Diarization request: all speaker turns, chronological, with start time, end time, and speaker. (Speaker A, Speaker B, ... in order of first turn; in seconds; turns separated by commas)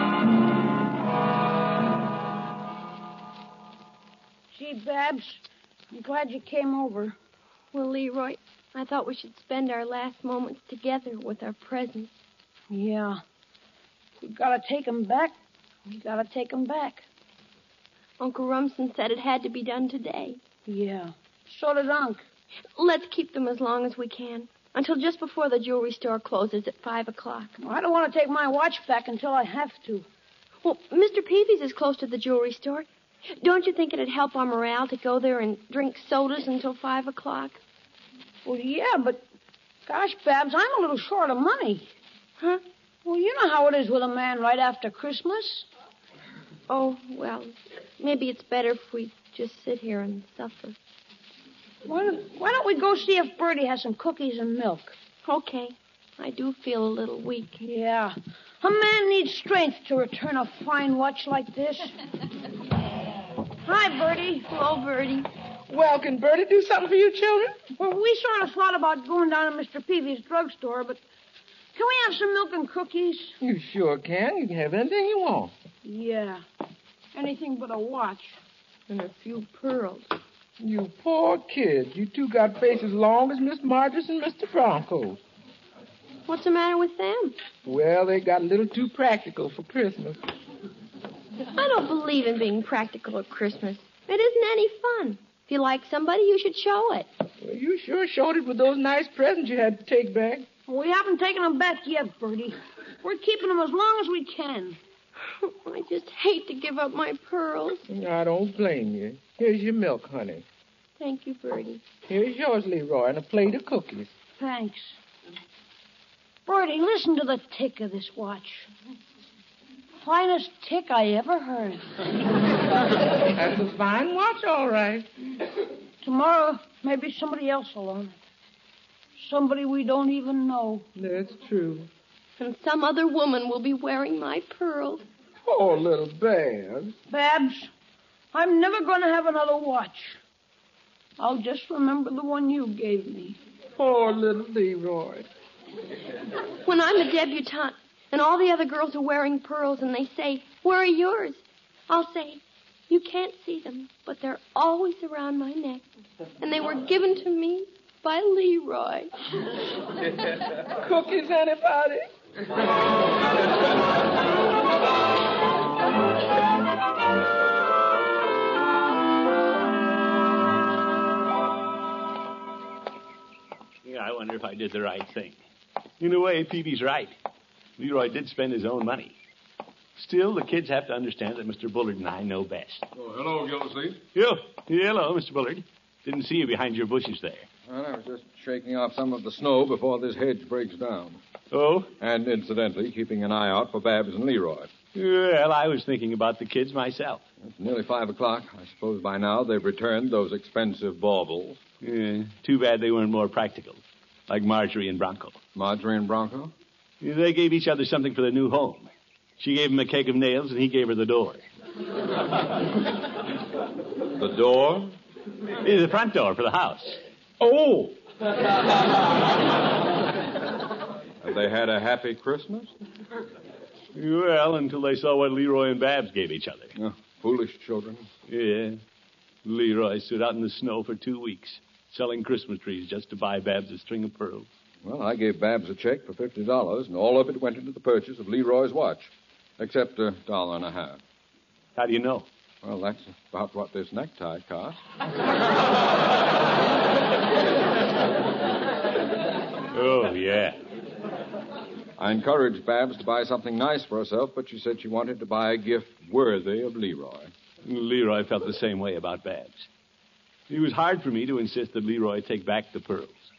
Speaker A: 4.5-7.2, Speaker B: 7.7-12.1, Speaker A: 12.7-13.2, Speaker A: 14.2-15.4, Speaker A: 15.9-17.1, Speaker B: 18.2-20.4, Speaker A: 20.7-22.2, Speaker B: 22.8-27.6, Speaker A: 27.6-30.1, Speaker B: 30.6-32.9, Speaker B: 33.4-37.6, Speaker A: 38.5-39.2, Speaker A: 39.9-41.9, Speaker A: 43.0-45.7, Speaker B: 46.7-50.8, Speaker A: 51.9-55.0, Speaker B: 55.2-57.6, Speaker A: 57.6-62.0, Speaker A: 63.6-64.5, Speaker B: 64.5-65.3, Speaker C: 65.7-67.6, Speaker A: 67.8-71.0, Speaker A: 71.7-73.3, Speaker C: 73.4-75.5, Speaker A: 75.8-76.4, Speaker A: 77.1-78.4, Speaker B: 78.9-80.1, Speaker C: 80.6-85.2, Speaker B: 86.3-87.4, Speaker C: 87.7-90.2, Speaker B: 91.5-97.1, Speaker C: 97.4-100.5, Speaker A: 100.7-104.8, Speaker B: 105.4-107.8, Speaker C: 107.9-110.5, Speaker B: 111.0-111.8, Speaker C: 112.1-114.1, Speaker A: 114.4-115.0, Speaker A: 116.5-118.7, Speaker A: 120.0-121.9, Speaker C: 123.4-125.1, Speaker A: 126.0-128.2, Speaker A: 129.2-130.9, Speaker C: 131.0-131.9, Speaker B: 132.4-135.0, Speaker C: 135.5-136.9, Speaker A: 137.1-137.7, Speaker A: 138.3-140.2, Speaker A: 141.2-143.4, Speaker C: 143.8-145.3, Speaker B: 146.7-155.8, Speaker B: 156.4-159.1, Speaker C: 160.8-162.1, Speaker D: 173.8-175.4, Speaker D: 176.0-177.1, Speaker D: 177.8-179.2, Speaker D: 180.0-182.9, Speaker E: 182.9-184.0, Speaker D: 184.2-187.5, Speaker E: 187.7-191.2, Speaker D: 191.5-191.9, Speaker E: 192.0-194.7, Speaker D: 194.9-197.2, Speaker E: 197.4-201.6, Speaker D: 201.8-205.4, Speaker E: 205.6-206.5, Speaker D: 207.0-208.9, Speaker D: 209.4-211.4, Speaker E: 214.2-214.9, Speaker D: 215.6-217.0, Speaker E: 217.4-217.9, Speaker E: 221.2-222.7, Speaker D: 223.9-226.7, Speaker E: 226.8-228.1, Speaker D: 228.3-228.8, Speaker D: 229.4-234.5, Speaker E: 234.8-241.0, Speaker D: 241.8-242.3, Speaker E: 242.6-244.8, Speaker D: 249.7-250.6, Speaker E: 252.0-257.3, Speaker D: 257.6-259.7, Speaker D: 260.5-263.1